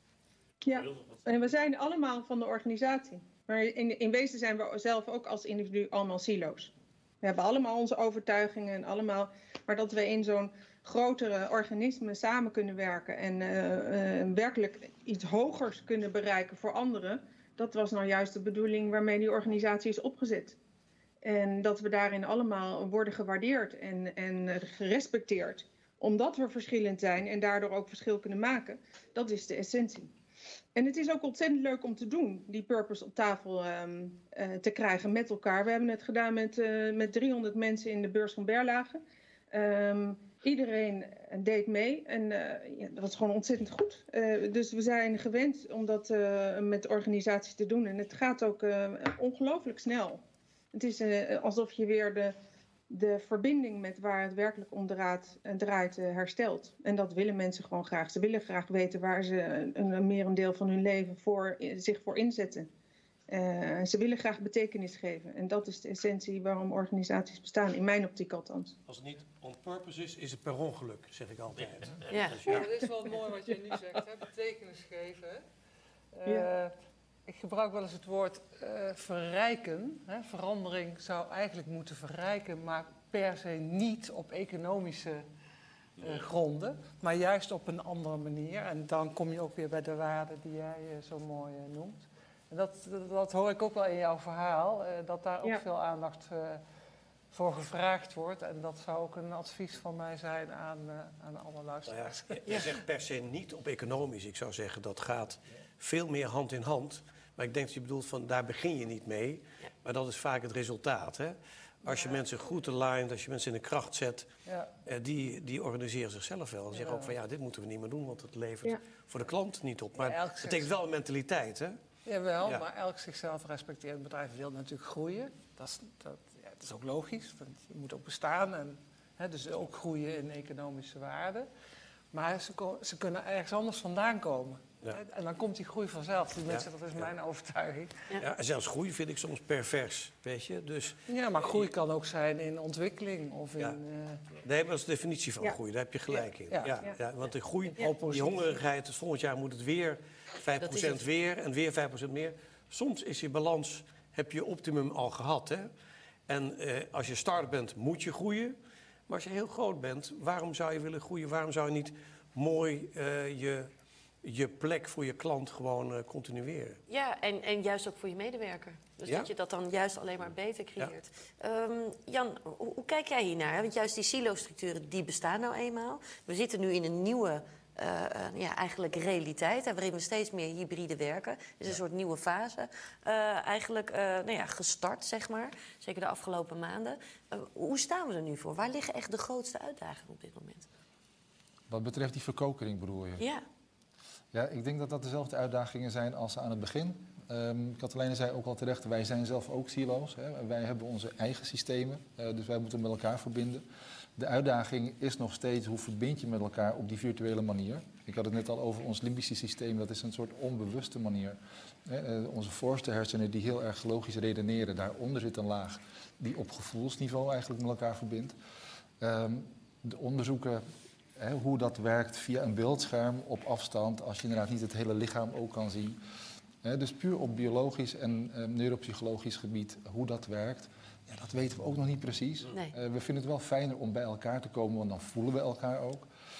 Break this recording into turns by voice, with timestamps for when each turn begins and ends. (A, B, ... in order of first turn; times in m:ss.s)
0:00.6-0:20.6 A
0:21.2-0:30.1 A
0:30.8-0:50.2 A
0:50.7-0:52.4 A
0:52.9-1:02.7 A
1:03.3-1:08.8 A
1:08.9-1:12.7 B
1:12.1-1:12.6 C
1:12.5-1:15.4 D
1:16.1-1:16.7 D
1:17.3-1:25.2 D
1:26.0-1:36.6 D
1:37.3-1:42.7 D
1:41.9-1:54.3 B
1:54.5-1:54.7 D
1:54.8-2:01.8 B
1:56.7-1:57.1 D
2:00.0-2:00.7 D
2:02.1-2:11.5 D
2:12.1-2:18.1 D
2:16.5-2:17.1 B
2:18.2-2:21.7 B
2:21.1-2:24.3 D
2:24.4-2:35.7 B
2:26.2-2:26.8 D
2:27.7-2:28.6 D
2:30.6-2:31.0 C
2:36.3-2:38.6 B
2:39.1-2:43.7 B
2:44.2-2:46.8 B
2:46.9-3:10.7 C
3:11.7-3:13.2 E
3:13.2-3:13.4 C
3:14.3-3:23.6 E
3:24.2-3:38.4 E
3:39.0-3:40.6 E
3:41.2-3:46.0 E
3:46.6-3:56.1 E